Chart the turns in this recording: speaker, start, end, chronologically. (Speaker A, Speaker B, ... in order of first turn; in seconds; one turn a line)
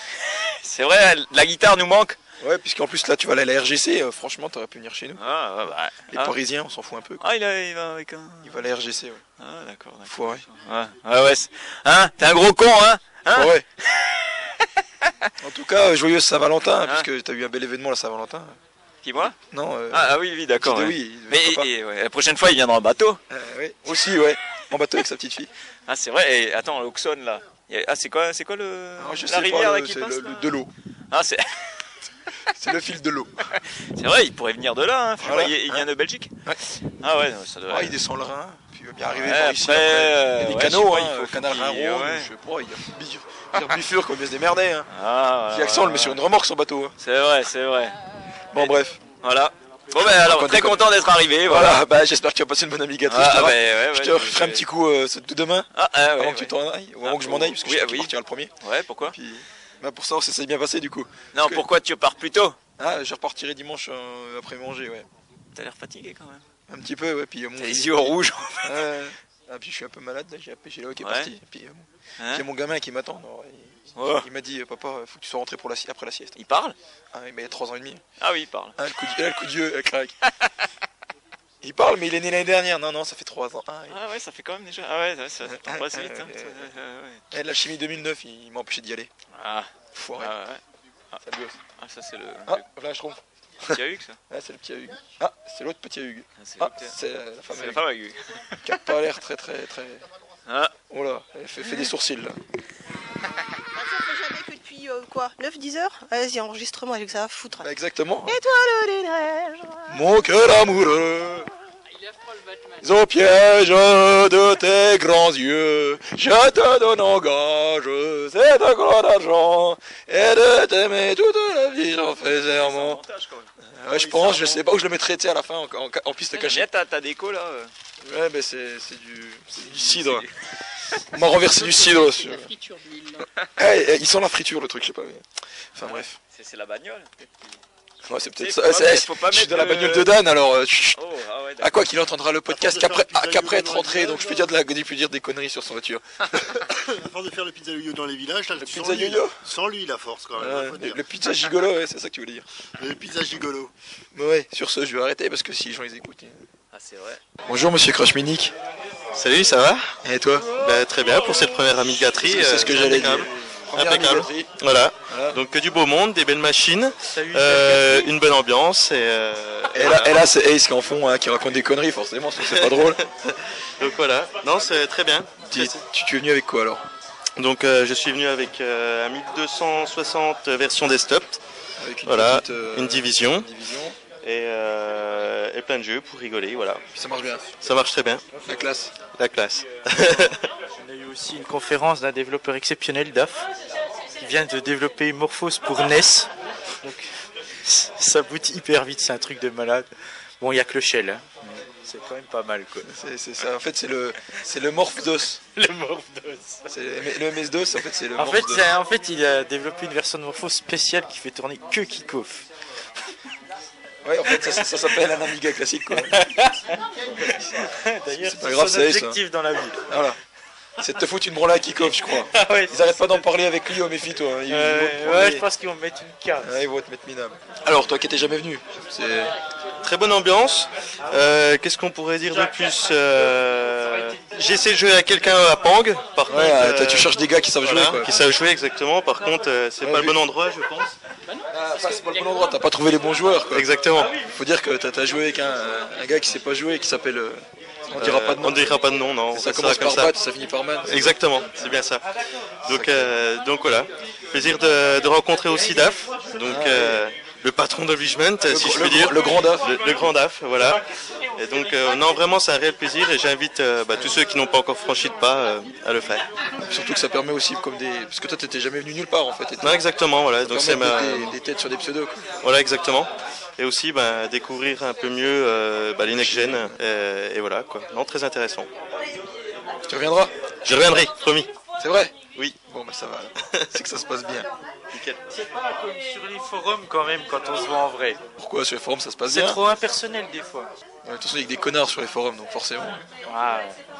Speaker A: 0.3-2.2
Speaker B: 2.4-5.3
Speaker A: 5.2-6.4
Speaker B: 6.1-7.2
Speaker A: 7.2-8.6
Speaker B: 8.4-9.2
Speaker A: 9.4-13.5
Speaker B: 10.1-10.5
Speaker B: 13.3-13.6
Speaker B: 15.4-18.6
Speaker A: 19.0-19.4
Speaker B: 19.5-21.7
Speaker A: 19.9-23.2
Speaker B: 23.3-25.5
Speaker A: 25.9-30.4
Speaker B: 29.0-30.7
Speaker A: 31.1-31.5
Speaker B: 32.5-33.4
Speaker A: 33.9-36.3
Speaker B: 35.2-35.9
Speaker A: 37.0-38.0
Speaker B: 37.7-44.9
Speaker A: 39.1-42.3
Speaker A: 44.9-46.2
Speaker B: 45.5-47.0
Speaker A: 47.0-47.9
Speaker B: 48.5-49.0
Speaker A: 48.5-51.8
Speaker B: 49.9-50.9
Speaker B: 51.5-58.5
Speaker A: 53.1-54.6
Speaker A: 55.7-59.1
Speaker B: 59.0-61.6
Speaker A: 61.3-62.6
Speaker B: 62.8-65.1
Speaker A: 65.5-66.4
Speaker B: 66.7-76.3
Speaker A: 67.6-68.8
Speaker A: 71.0-71.3
Speaker A: 72.2-72.5
Speaker A: 74.0-74.3
Speaker A: 76.3-76.8
Speaker B: 77.1-78.0
Speaker A: 78.2-78.7
Speaker B: 78.8-80.1
Speaker B: 81.6-84.0
Speaker A: 83.9-87.2
Speaker B: 85.5-86.7
Speaker B: 87.3-89.1
Speaker A: 89.3-90.6
Speaker B: 89.9-90.3
Speaker B: 91.2-91.6
Speaker A: 91.8-92.6
Speaker B: 92.5-97.8
Speaker A: 93.7-94.2
Speaker A: 96.4-96.9
Speaker A: 97.5-98.2
Speaker B: 98.6-100.0
Speaker A: 100.5-100.7
Speaker B: 100.9-102.4
Speaker C: 103.7-107.7
Speaker B: 107.6-108.3
Speaker C: 108.2-110.0
Speaker B: 109.9-111.5
Speaker D: 112.0-112.9
Speaker B: 112.8-123.0
Speaker A: 122.3-124.6
Speaker B: 123.8-126.7
Speaker A: 126.3-127.7
Speaker B: 128.0-130.2
Speaker A: 129.7-130.3
Speaker B: 131.1-132.5
Speaker D: 131.4-133.2
Speaker B: 133.6-135.2
Speaker B: 135.8-136.2
Speaker A: 135.8-137.6
Speaker B: 138.0-141.0
Speaker A: 138.4-140.2
Speaker A: 140.9-141.7
Speaker B: 141.6-146.7
Speaker E: 142.9-144.0
Speaker E: 146.9-150.9
Speaker B: 148.6-149.4
Speaker B: 150.3-152.4
Speaker E: 152.8-153.7
Speaker B: 154.1-156.4
Speaker A: 156.7-157.2
Speaker B: 157.5-158.5
Speaker F: 159.1-159.9
Speaker B: 160.0-160.5
Speaker F: 160.6-170.2
Speaker B: 162.0-164.5
Speaker B: 165.1-165.4
Speaker G: 167.1-168.1
Speaker B: 169.7-173.0
Speaker F: 172.4-175.8
Speaker B: 175.4-176.8
Speaker F: 177.4-181.4
Speaker B: 181.8-183.9
Speaker F: 182.1-183.5
Speaker F: 184.2-186.8
Speaker B: 186.9-187.4
Speaker F: 187.6-188.2
Speaker B: 188.4-188.9
Speaker F: 189.1-190.4
Speaker G: 190.8-193.5
Speaker G: 194.2-196.3
Speaker G: 196.8-197.1
Speaker G: 197.6-199.9
Speaker G: 200.4-202.9
Speaker B: 202.9-205.4
Speaker G: 205.5-206.7
Speaker B: 206.7-208.7
Speaker G: 208.2-212.4
Speaker B: 214.0-216.1
Speaker G: 215.9-216.6
Speaker G: 217.2-219.8
Speaker B: 218.1-219.2
Speaker B: 219.9-220.2
Speaker B: 220.8-225.4
Speaker G: 222.3-222.8
Speaker G: 224.5-226.5
Speaker B: 226.4-229.3
Speaker F: 229.8-240.9
Speaker B: 236.3-238.1
Speaker B: 239.8-240.2
Speaker B: 241.5-243.7
Speaker F: 243.5-244.2
Speaker B: 244.2-248.8
Speaker F: 247.9-250.2
Speaker B: 249.3-251.1
Speaker F: 250.8-252.0
Speaker F: 252.6-260.8
Speaker B: 252.7-253.1
Speaker B: 256.4-257.0
Speaker B: 258.5-259.7
Speaker F: 261.4-266.3
Speaker B: 266.6-269.9
Speaker F: 269.6-271.4
Speaker B: 270.5-272.3
Speaker F: 272.4-278.7
Speaker B: 276.1-276.8
Speaker B: 279.9-280.3
Speaker F: 280.6-281.5
Speaker B: 281.8-284.5
Speaker F: 284.9-285.2
Speaker G: 285.3-288.2
Speaker B: 288.4-289.6
Speaker G: 289.3-290.7
Speaker B: 291.0-293.0
Speaker G: 293.2-293.8